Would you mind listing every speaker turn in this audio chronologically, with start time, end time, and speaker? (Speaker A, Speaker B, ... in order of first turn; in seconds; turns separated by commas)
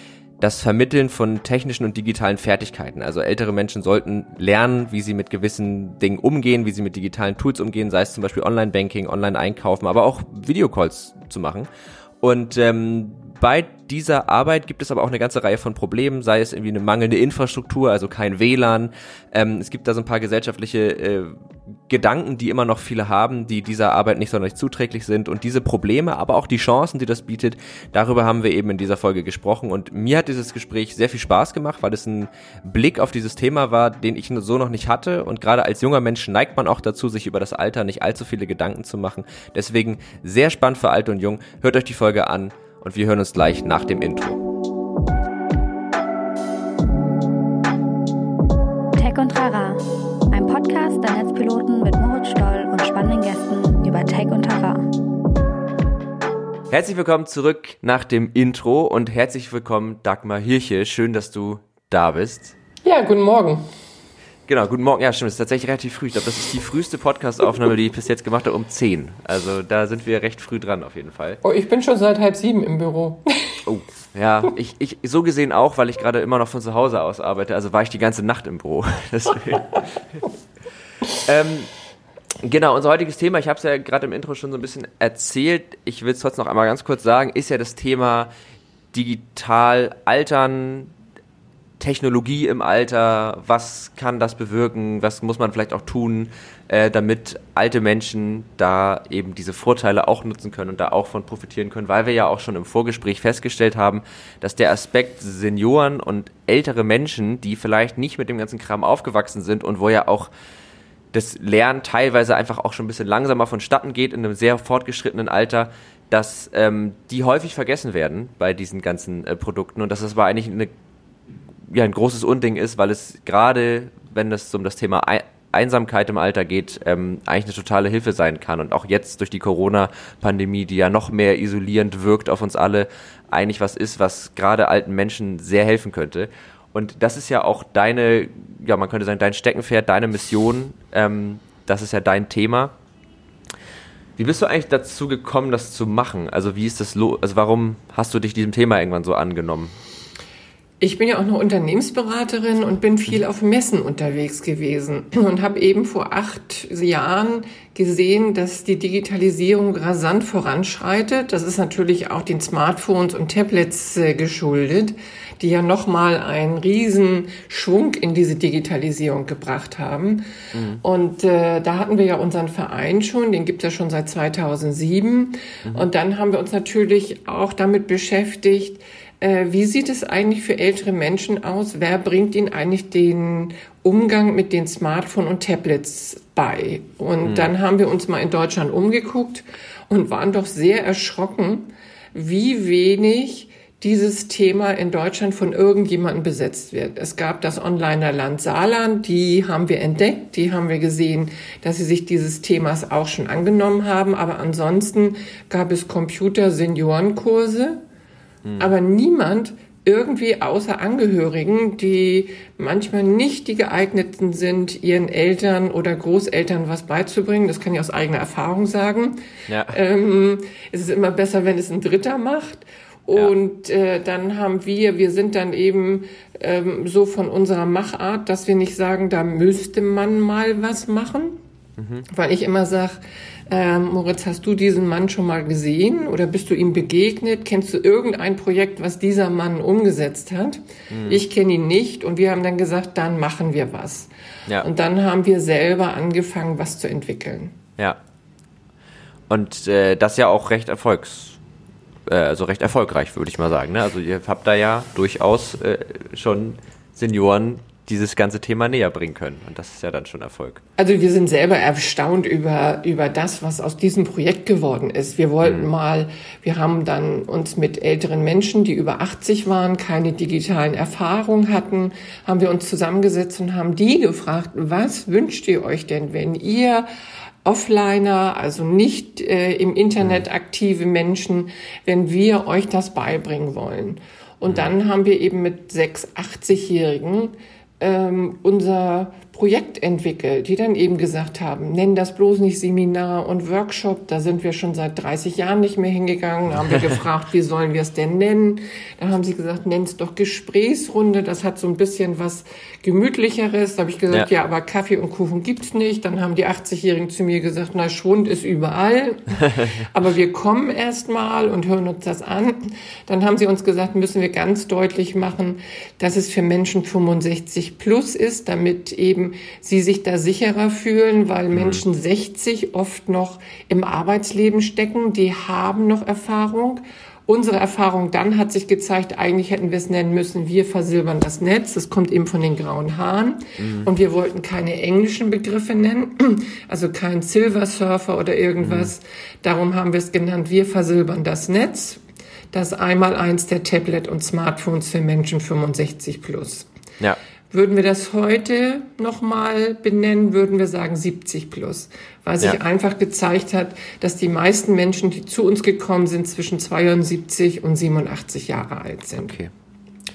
Speaker A: 0.4-11.7, Speaker A: 12.2-21.3, Speaker A: 21.9-44.4, Speaker B: 49.0-54.9, Speaker A: 56.7-62.5, Speaker C: 62.8-63.6, Speaker A: 64.5-71.4, Speaker C: 71.4-73.6, Speaker A: 73.7-80.2, Speaker A: 81.2-81.7, Speaker A: 82.4-88.3, Speaker A: 88.9-90.9, Speaker A: 91.8-110.3, Speaker A: 111.1-120.7, Speaker A: 121.7-142.7, Speaker A: 144.2-149.7, Speaker C: 150.8-170.2, Speaker A: 170.5-170.8, Speaker C: 170.8-207.8, Speaker A: 187.2-187.5, Speaker A: 208.4-208.7, Speaker C: 208.6-231.4, Speaker A: 219.5-219.8, Speaker A: 231.8-232.1, Speaker C: 232.1-247.6, Speaker A: 240.9-241.2, Speaker A: 249.3-251.4, Speaker A: 252.1-260.6, Speaker C: 260.8-276.9, Speaker C: 277.4-346.7, Speaker A: 321.5-321.8, Speaker A: 333.6-333.9, Speaker A: 338.6-338.9, Speaker C: 347.5-359.4, Speaker A: 359.2-359.5